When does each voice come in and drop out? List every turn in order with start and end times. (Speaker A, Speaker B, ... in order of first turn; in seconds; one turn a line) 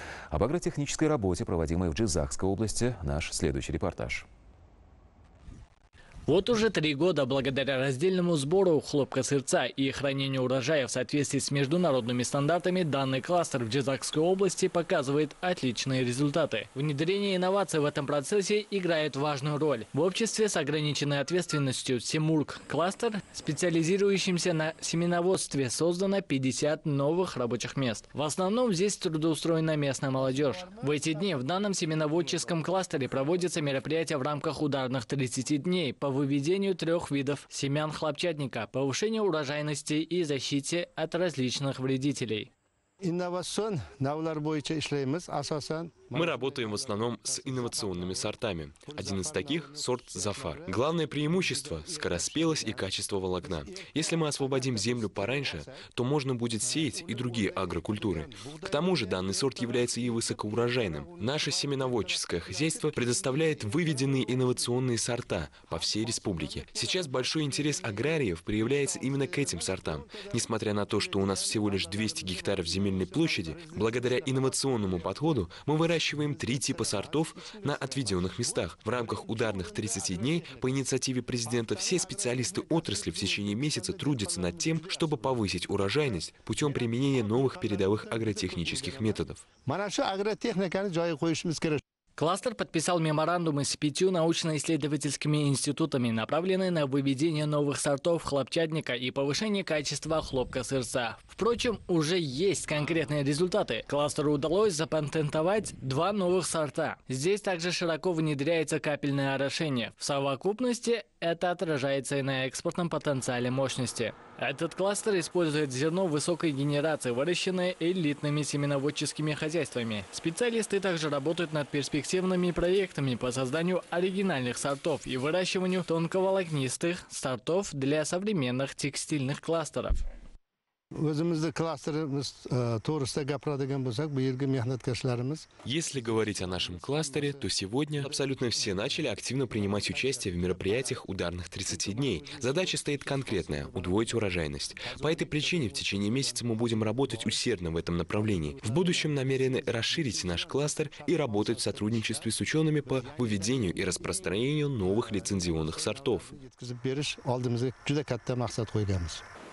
Speaker A: 0.3-4.2
Speaker B: 6.2-42.5
Speaker C: 43.0-55.9
Speaker D: 46.1-89.4
Speaker C: 56.6-64.8
Speaker C: 65.7-80.7
Speaker C: 81.4-85.4
Speaker C: 86.6-91.8
Speaker B: 92.2-130.0
Speaker C: 130.9-137.5
Speaker D: 135.6-156.3
Speaker C: 138.0-138.9
Speaker C: 139.5-159.2